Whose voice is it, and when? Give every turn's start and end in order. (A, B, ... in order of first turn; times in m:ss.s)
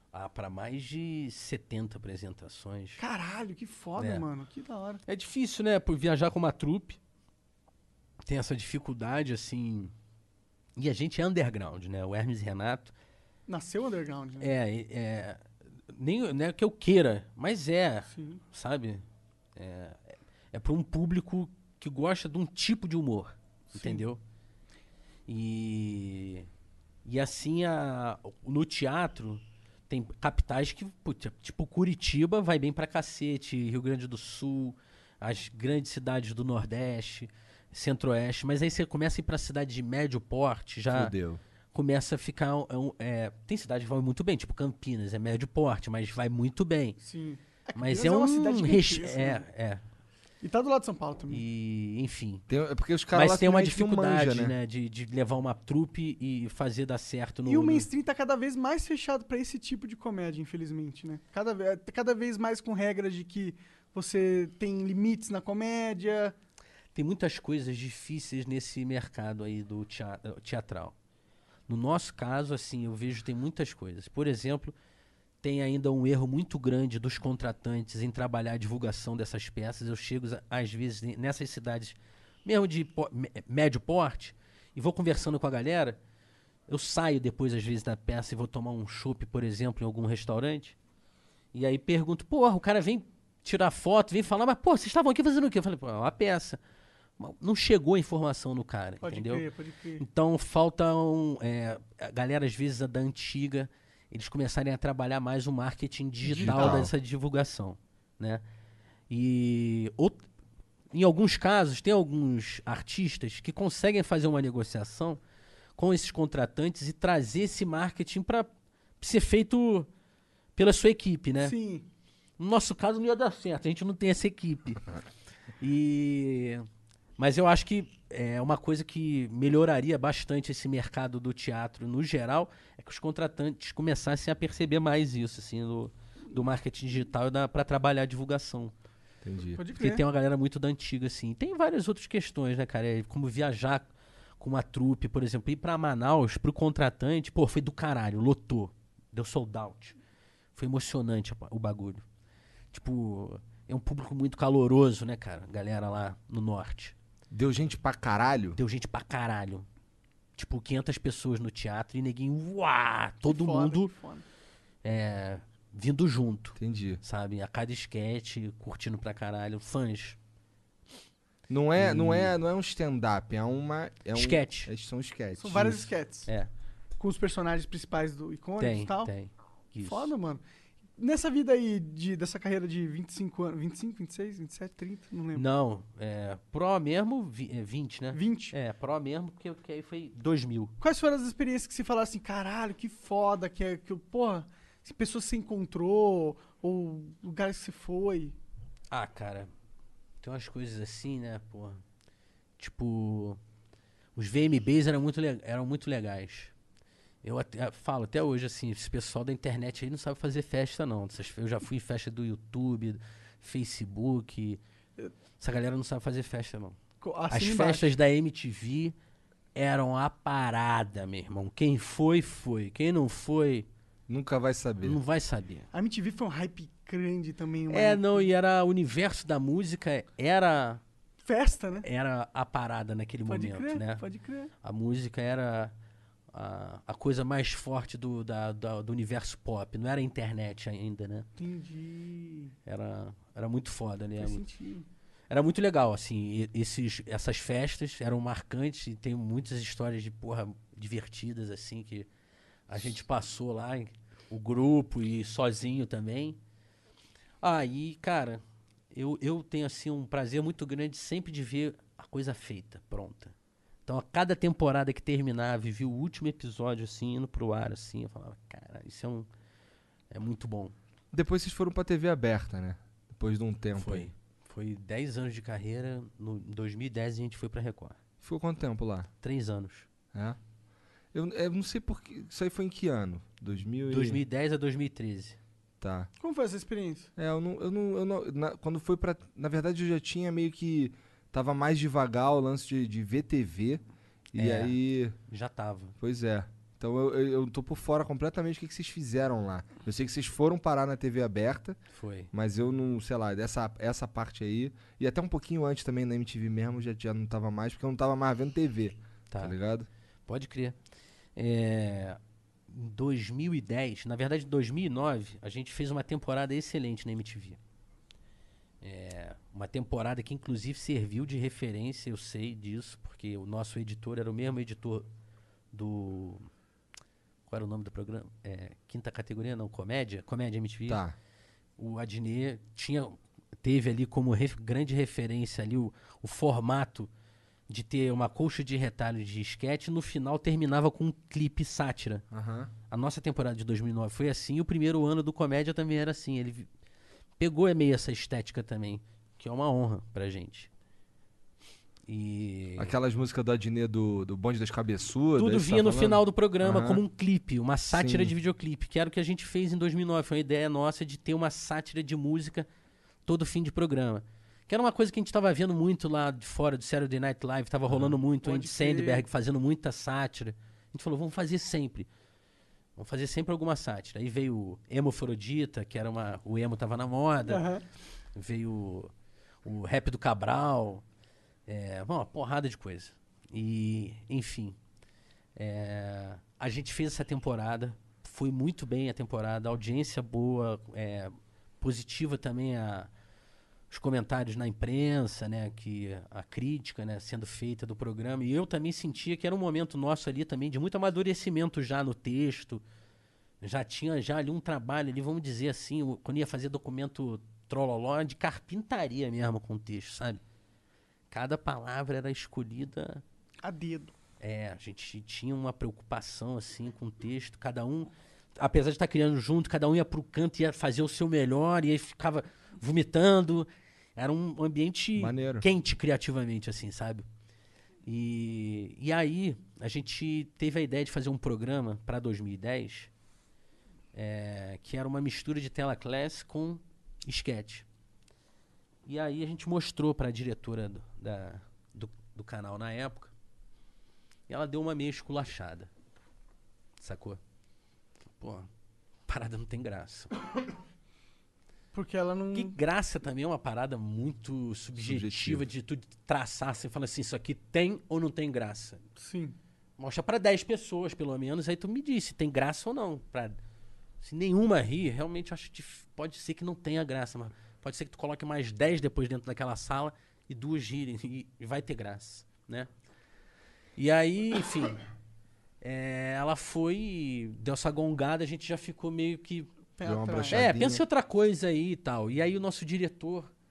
0:00.1-0:03.0 A
0:03.0-0:05.0 B
0:04.0-0:04.2 A
0:05.1-0:07.0 A
0:08.2-0:09.9 A
0:10.8-0:12.9 A
0:13.5-0:14.5 B
0:14.4-0:19.0 A
0:18.1-0:18.4 B
0:19.6-0:24.2 A
0:23.7-0:24.1 B
0:25.3-0:26.5 A
0:27.0-0:41.1 A
0:40.9-0:41.4 C
0:41.7-0:47.0 A
0:47.0-0:49.4 B
0:47.8-0:49.8 A
0:50.4-0:51.4 B
0:51.3-0:52.4 A
0:52.5-0:54.6 C
0:53.1-0:57.9 A
0:57.5-1:06.4 B
1:07.0-1:11.0 A
1:11.7-1:14.7 A
1:15.4-1:26.0 A
1:26.7-1:30.8 A
1:31.5-1:36.6 A
1:37.2-1:39.4 A
1:39.0-1:40.0 B
1:40.0-1:48.4 A
1:46.2-1:46.9 C
1:49.1-1:50.2 A
1:50.9-1:55.2 A
1:55.8-1:59.9 A
2:00.6-2:01.5 A
2:01.4-2:01.9 B
2:02.4-2:04.8 A
2:05.6-2:06.6 A
2:07.2-2:18.7 A
2:19.2-2:19.6 C
2:19.6-2:20.0 B
2:19.8-2:23.9 A
2:24.4-2:30.0 A
2:30.6-2:32.0 A
2:32.7-2:37.0 A
2:37.3-2:38.6 C
2:38.6-2:39.7 A
2:40.4-2:43.9 A
2:43.2-2:44.2 B
2:44.8-2:50.2 A
2:46.6-2:47.0 C
2:51.5-2:55.9 C
2:51.8-2:52.3 A
2:54.1-2:54.7 A
2:55.4-2:56.3 B
2:57.0-2:59.1 B
2:58.6-3:00.1 A
2:59.8-3:00.4 B
3:01.0-3:05.5 B
3:05.3-3:10.7 A
3:08.1-3:08.6 B
3:10.8-3:18.4 B
3:18.9-3:19.5 A
3:20.2-3:21.8 A
3:22.6-3:23.4 A
3:24.2-3:26.5 A
3:27.2-3:34.6 A
3:35.4-3:36.8 A
3:37.0-3:38.0 B
3:37.3-3:39.0 A
3:39.6-3:43.7 A
3:44.1-3:45.0 C
3:44.8-3:45.7 A
3:45.7-3:48.3 B
3:47.7-3:50.8 A
3:51.2-3:51.9 B
3:51.8-3:54.0 A
3:53.3-3:54.5 B
3:54.6-3:55.7 A
3:56.3-4:01.3 A
4:01.4-4:02.5 B
4:02.7-4:04.4 A
4:04.2-4:04.9 B
4:05.3-4:12.1 A
4:12.7-4:16.4 A
4:17.4-4:18.4 A
4:18.9-4:23.3 A
4:23.9-4:29.3 A
4:30.1-4:30.7 A
4:31.1-4:34.1 C
4:33.8-4:38.0 A
4:38.2-4:39.1 C
4:39.2-4:39.9 A
4:41.1-4:44.2 C
4:43.9-4:45.4 A
4:45.8-4:46.1 C
4:46.2-4:47.1 B
4:47.2-4:53.8 C
4:54.3-4:55.2 C
4:54.4-4:54.8 A
4:55.3-4:56.0 A
4:56.0-5:01.8 C
5:01.9-5:02.3 A
5:02.3-5:09.9 C
5:09.3-5:09.6 A
5:10.3-5:10.8 A
5:11.4-5:17.6 A
5:18.8-5:25.1 A
5:25.7-5:26.5 A
5:27.5-5:31.0 A
5:30.9-5:31.2 C
5:31.8-5:37.1 A
5:37.7-5:42.2 A
5:42.3-5:42.7 C
5:42.9-5:46.7 A
5:47.4-5:50.7 A
5:52.1-5:53.0 A
5:52.8-5:57.0 C
5:55.4-6:02.7 A
5:57.9-5:58.3 C
6:03.3-6:12.1 A
6:07.9-6:08.2 C
6:08.4-6:09.3 B
6:13.0-6:17.6 A
6:17.5-6:17.8 B
6:18.4-6:19.1 A
6:19.6-6:21.0 A
6:21.7-6:24.8 A
6:25.6-6:33.1 A
6:33.9-6:42.8 A
6:43.6-6:50.4 A
6:51.3-6:53.2 A
6:53.6-6:54.1 B
6:54.4-7:07.2 A
7:05.2-7:05.7 C
7:08.1-7:13.1 A
7:14.1-7:17.8 A
7:19.1-7:23.3 A
7:24.5-7:25.9 A
7:27.0-7:27.4 A
7:28.4-7:28.7 A
7:29.3-7:30.3 A
7:31.9-7:32.8 B
7:32.5-7:39.0 A
7:35.0-7:35.7 C
7:39.2-7:39.6 B
7:40.0-7:43.6 A
7:44.2-7:52.9 A
7:54.0-7:55.0 A
7:55.8-7:59.7 A
8:00.0-8:00.6 B
8:00.0-8:01.0 C
8:00.5-8:03.5 A